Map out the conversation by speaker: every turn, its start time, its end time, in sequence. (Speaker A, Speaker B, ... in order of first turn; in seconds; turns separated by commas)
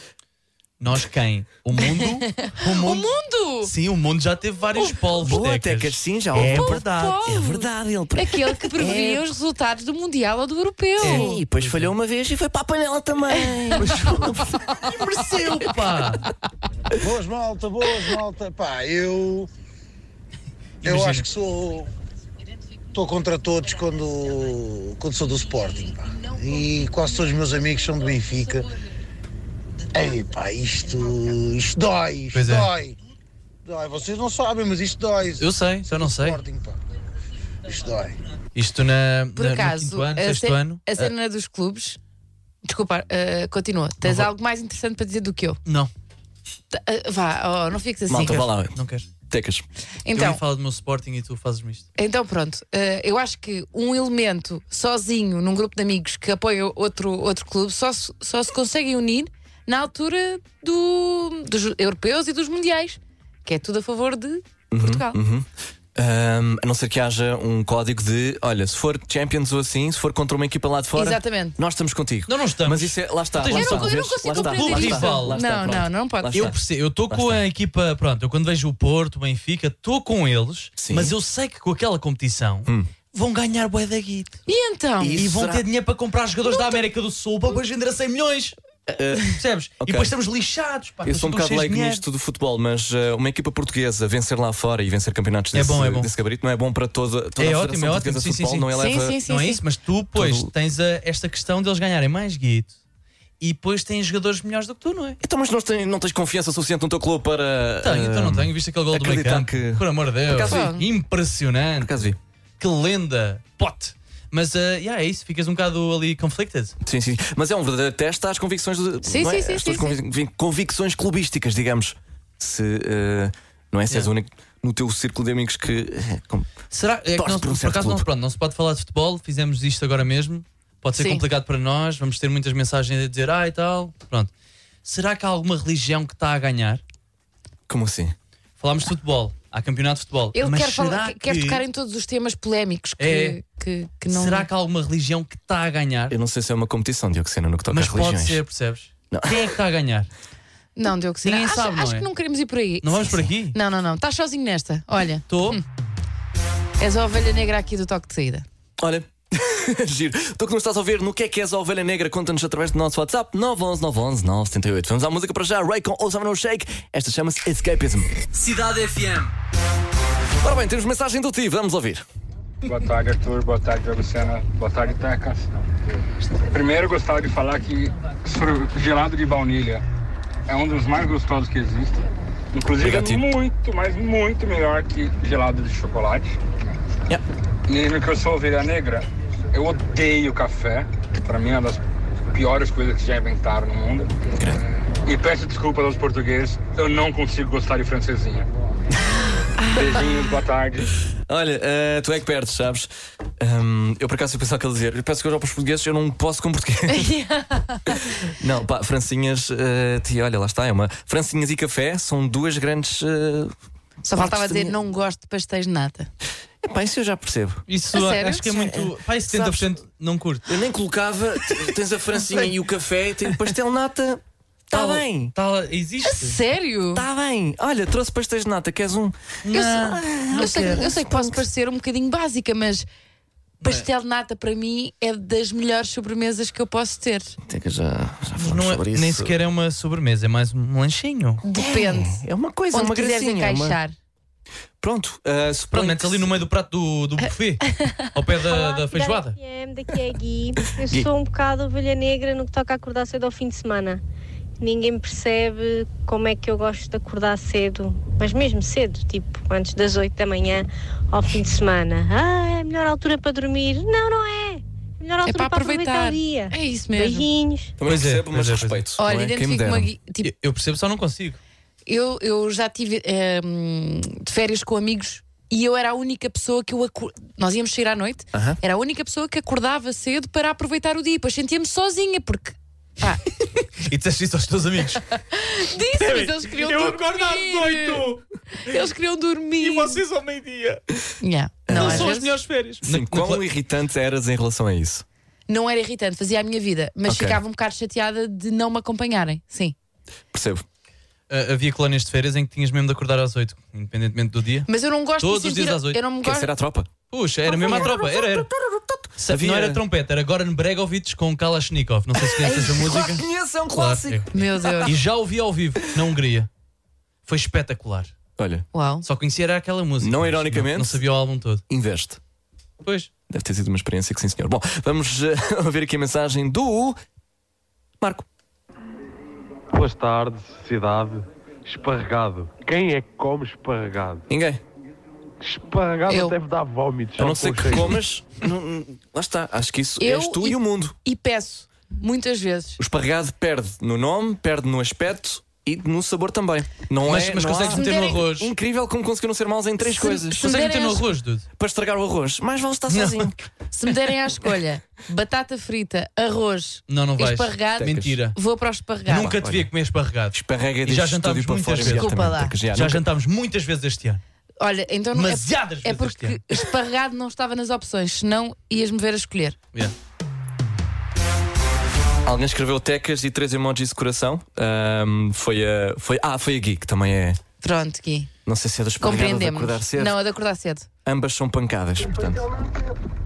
Speaker A: 0.8-7.3, Speaker B: 1.8-3.7, Speaker C: 4.8-9.2, Speaker B: 6.3-11.4, Speaker C: 11.0-14.6, Speaker A: 11.0-11.9, Speaker B: 13.3-14.0, Speaker A: 13.8-16.3, Speaker B: 14.7-15.0, Speaker D: 17.0-19.5, Speaker A: 20.8-21.2, Speaker D: 20.8-21.9, Speaker D: 22.9-28.7, Speaker D: 29.9-33.0, Speaker A: 32.3-32.7, Speaker D: 33.6-36.8, Speaker A: 35.4-36.4, Speaker D: 37.6-38.2, Speaker A: 38.5-41.1, Speaker B: 39.4-42.0, Speaker B: 42.6-45.6, Speaker A: 44.0-44.3, Speaker B: 46.7-48.5, Speaker C: 48.1-48.8, Speaker A: 48.7-49.1, Speaker C: 49.3-49.6, Speaker B: 50.0-50.4, Speaker A: 50.1-51.9, Speaker B: 52.0-65.2, Speaker C: 64.7-76.6, Speaker B: 70.9-71.6, Speaker A: 72.3-75.3, Speaker B: 73.5-76.5, Speaker A: 76.3-84.4, Speaker C: 77.1-77.4, Speaker C: 80.8-81.2, Speaker C: 82.7-82.9, Speaker B: 84.5-85.2, Speaker C: 85.0-85.7, Speaker A: 85.2-88.5, Speaker C: 88.9-90.1, Speaker A: 89.3-92.0, Speaker C: 91.0-99.2, Speaker A: 95.5-96.1, Speaker A: 97.4-98.7, Speaker B: 98.8-99.6, Speaker A: 99.3-102.7, Speaker C: 100.1-100.5, Speaker A: 103.4-105.2, Speaker C: 105.2-110.7, Speaker A: 107.8-112.0, Speaker B: 110.4-110.8, Speaker C: 111.8-112.2, Speaker A: 112.6-116.7, Speaker C: 116.8-126.5, Speaker B: 119.0-120.0, Speaker A: 126.7-134.3, Speaker C: 127.1-128.1, Speaker B: 130.9-131.2, Speaker A: 134.8-136.8, Speaker C: 137.7-138.1, Speaker A: 138.6-141.6, Speaker B: 140.3-144.5, Speaker A: 143.0-143.4, Speaker A: 144.1-146.1, Speaker C: 146.1-148.4, Speaker A: 147.7-150.1, Speaker C: 149.1-149.5, Speaker B: 150.8-155.6, Speaker A: 151.2-152.1, Speaker A: 152.8-153.6, Speaker A: 155.3-155.6, Speaker B: 156.8-158.4, Speaker C: 158.8-168.1, Speaker A: 168.3-169.3, Speaker C: 170.4-172.0, Speaker E: 172.6-175.5, Speaker E: 176.5-179.8, Speaker E: 180.5-186.4, Speaker C: 182.8-183.2, Speaker E: 187.7-191.8, Speaker E: 192.3-194.2, Speaker C: 194.4-194.6, Speaker E: 195.0-198.5, Speaker B: 199.6-199.8, Speaker E: 199.7-200.9, Speaker C: 201.3-207.1, Speaker B: 206.9-208.1, Speaker C: 207.9-213.5, Speaker B: 214.0-216.1, Speaker C: 214.1-214.8, Speaker C: 216.6-217.6, Speaker A: 217.7-220.5, Speaker B: 217.9-218.4, Speaker C: 218.4-219.7, Speaker C: 220.5-225.3, Speaker A: 224.7-226.4, Speaker B: 226.0-227.1, Speaker C: 226.9-231.4, Speaker A: 229.4-230.9, Speaker B: 230.3-232.9, Speaker B: 233.6-237.4, Speaker C: 237.4-239.4, Speaker A: 238.4-241.4, Speaker B: 241.4-243.9, Speaker C: 241.5-243.8, Speaker C: 244.8-246.3, Speaker A: 245.7-249.4, Speaker B: 247.7-248.1, Speaker F: 248.4-254.0, Speaker F: 254.6-267.7, Speaker B: 265.2-267.3, Speaker C: 267.8-269.9, Speaker A: 267.9-268.8, Speaker B: 269.0-270.3, Speaker A: 270.2-271.4, Speaker B: 271.9-283.2, Speaker C: 278.3-278.6, Speaker A: 283.8-285.1, Speaker B: 285.2-290.0, Speaker A: 285.8-288.8, Speaker A: 289.6-290.8, Speaker B: 291.2-292.4, Speaker C: 291.6-292.2, Speaker A: 291.7-293.4, Speaker C: 292.8-295.0, Speaker B: 295.5-299.8, Speaker C: 297.1-297.4, Speaker C: 300.3-300.6, Speaker A: 301.3-306.0, Speaker B: 304.7-306.5, Speaker C: 306.2-306.9, Speaker A: 307.1-308.5, Speaker C: 307.5-309.8, Speaker B: 307.6-307.9, Speaker A: 309.2-314.3, Speaker C: 312.2-314.9, Speaker B: 312.4-312.8, Speaker B: 314.3-314.9, Speaker A: 314.8-316.5, Speaker A: 317.2-318.1, Speaker C: 318.4-318.7, Speaker B: 318.7-319.1, Speaker A: 319.0-321.6, Speaker C: 320.0-321.0, Speaker C: 321.7-322.2, Speaker A: 322.8-323.1, Speaker C: 323.3-327.0, Speaker C: 328.0-328.2, Speaker G: 329.7-334.3, Speaker C: 334.3-334.6, Speaker G: 335.4-338.0, Speaker B: 336.1-336.4, Speaker C: 337.2-340.9, Speaker B: 340.0-342.8, Speaker C: 342.8-350.5, Speaker A: 347.0-348.5, Speaker B: 347.7-348.2, Speaker B: 349.9-351.1, Speaker A: 350.4-351.4, Speaker C: 351.6-353.5, Speaker A: 352.9-353.3, Speaker B: 353.7-359.3, Speaker A: 356.9-358.4, Speaker C: 357.8-358.2, Speaker A: 359.1-362.1, Speaker C: 359.1-359.7, Speaker C: 360.3-363.0, Speaker B: 361.8-362.6, Speaker A: 362.7-364.2, Speaker B: 364.6-369.6, Speaker A: 365.1-366.4, Speaker C: 372.2-377.4, Speaker B: 377.6-378.3, Speaker C: 378.4-380.2, Speaker B: 379.0-380.9, Speaker C: 381.0-382.5